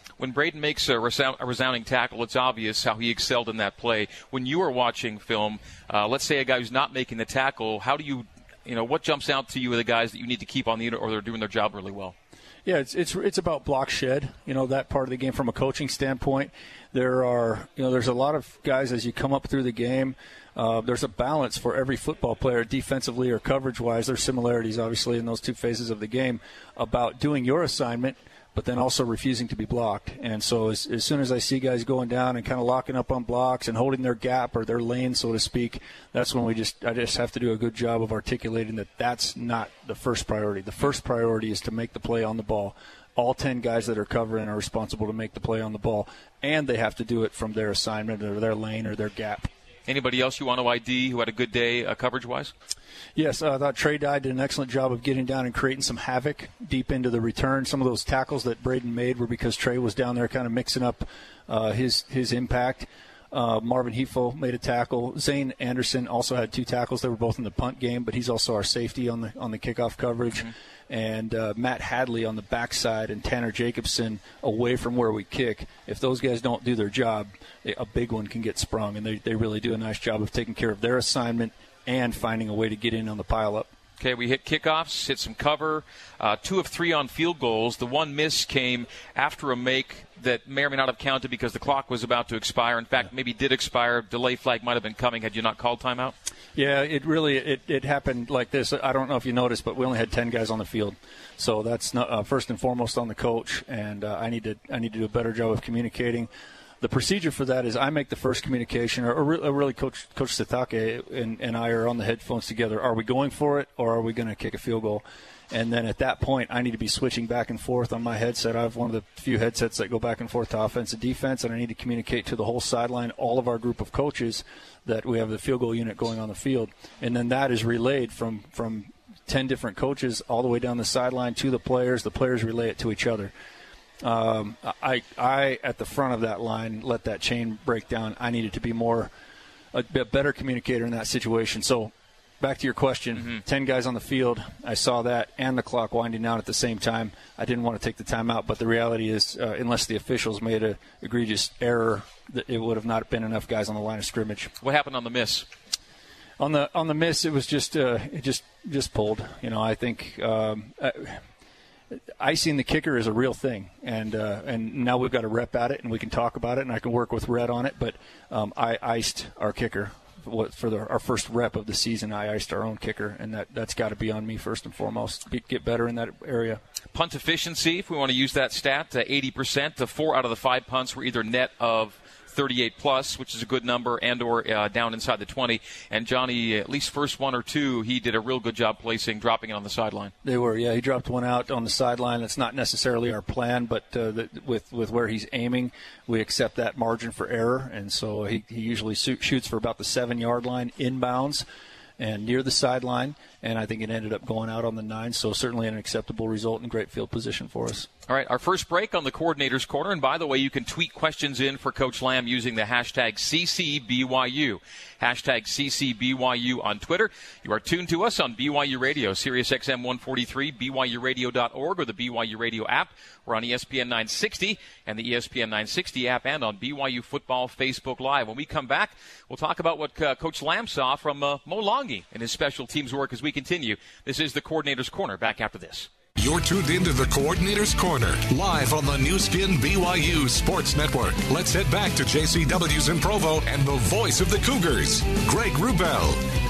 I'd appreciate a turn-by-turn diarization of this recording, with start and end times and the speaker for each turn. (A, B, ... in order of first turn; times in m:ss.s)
0:00.2-0:12.2 A
0:12.6-0:49.5 B
0:49.9-0:52.5 A
0:53.2-1:23.7 B
1:24.0-1:36.2 A
1:36.6-1:46.3 B
1:46.8-2:13.3 B
2:14.0-2:19.1 B
2:19.7-2:34.5 B
2:34.6-2:35.5 A
2:36.4-2:41.2 B
2:42.2-2:56.6 B
2:56.9-3:10.1 A
3:10.2-3:21.5 B
3:22.0-3:27.9 B
3:28.1-3:55.9 A
3:56.2-4:06.2 C